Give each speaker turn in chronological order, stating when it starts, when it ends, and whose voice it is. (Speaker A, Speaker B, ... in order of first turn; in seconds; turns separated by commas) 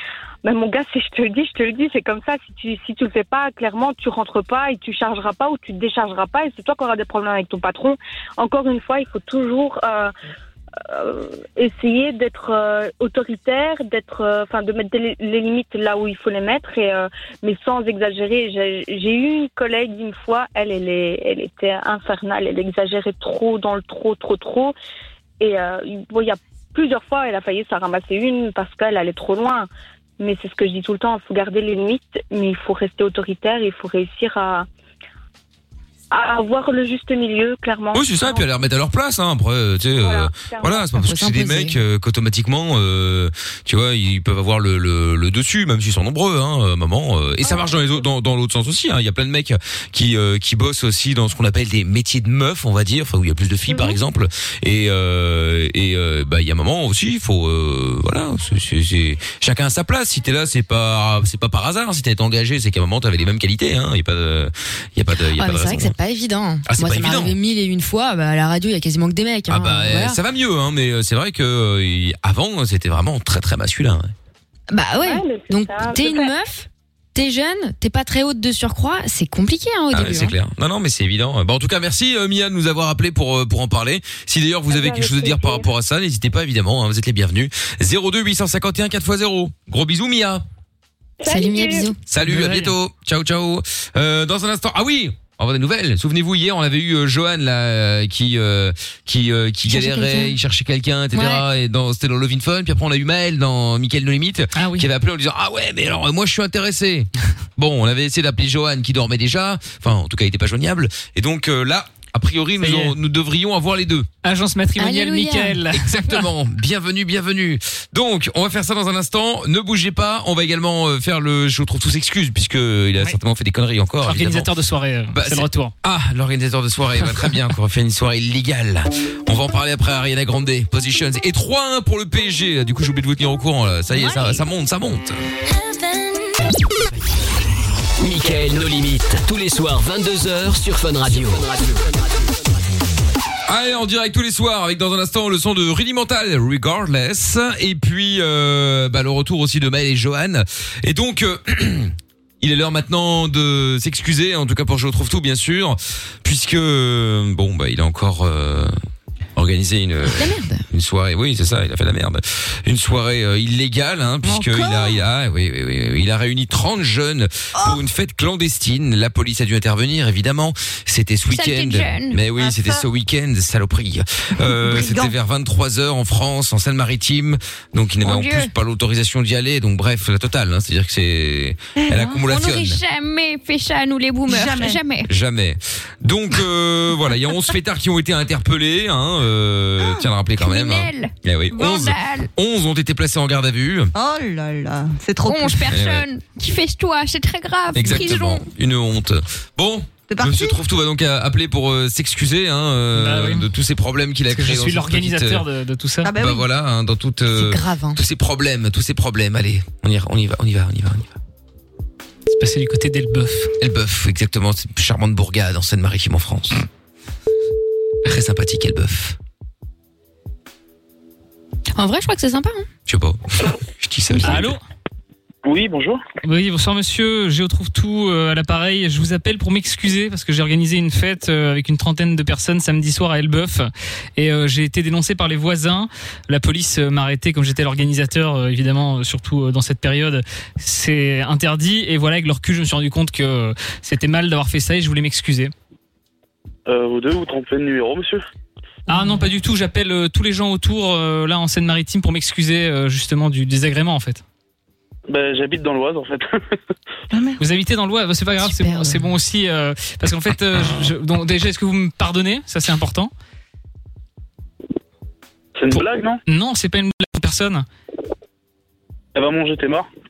Speaker A: 0.4-10.1, Speaker A: 10.8-24.8, Speaker A: 25.4-29.7, Speaker A: 30.2-34.7, Speaker A: 36.1-38.5, Speaker B: 37.9-66.0, Speaker A: 40.0-40.9, Speaker C: 41.0-41.8, Speaker A: 47.4-48.1, Speaker A: 53.7-54.0, Speaker C: 65.3-70.2, Speaker B: 66.7-67.4, Speaker B: 69.5-74.1, Speaker C: 74.7-80.3, Speaker A: 75.0-76.3, Speaker B: 79.9-90.4, Speaker A: 84.7-85.7, Speaker A: 91.2-91.9, Speaker C: 91.2-92.0, Speaker B: 92.1-114.1, Speaker D: 92.2-92.7, Speaker C: 99.7-100.4, Speaker C: 101.1-101.5, Speaker D: 104.5-104.9, Speaker D: 112.6-113.0, Speaker D: 114.2-116.3, Speaker C: 114.8-115.6, Speaker B: 115.7-124.5, Speaker D: 124.0-125.7, Speaker B: 125.2-135.2, Speaker C: 134.1-134.3, Speaker E: 138.0-141.8, Speaker B: 143.5-158.7, Speaker B: 159.4-182.8, Speaker C: 160.1-160.6, Speaker F: 164.2-165.0, Speaker F: 167.5-167.8, Speaker C: 171.3-172.2, Speaker F: 172.3-172.8, Speaker F: 174.5-175.1, Speaker C: 178.0-178.5, Speaker F: 181.8-182.2, Speaker C: 182.1-185.1, Speaker F: 184.3-184.8, Speaker B: 185.1-193.9, Speaker C: 190.4-192.3, Speaker F: 193.9-195.8, Speaker C: 195.2-198.5, Speaker B: 195.7-196.1, Speaker B: 197.7-205.4, Speaker F: 200.1-200.6, Speaker D: 202.9-203.5, Speaker D: 204.3-206.1, Speaker F: 206.0-206.5, Speaker B: 206.1-211.1, Speaker C: 207.3-208.0, Speaker D: 212.3-213.5, Speaker B: 213.6-216.7, Speaker B: 218.1-219.2, Speaker C: 221.8-222.7, Speaker B: 222.9-224.6, Speaker D: 224.2-224.6, Speaker G: 225.4-226.0, Speaker D: 226.2-245.5, Speaker G: 246.7-248.2, Speaker D: 248.9-254.2, Speaker C: 248.9-249.1, Speaker G: 255.1-256.5, Speaker F: 257.1-257.4, Speaker D: 257.4-263.1, Speaker C: 258.4-259.1, Speaker G: 265.6-266.2, Speaker D: 265.8-267.6, Speaker G: 269.1-269.9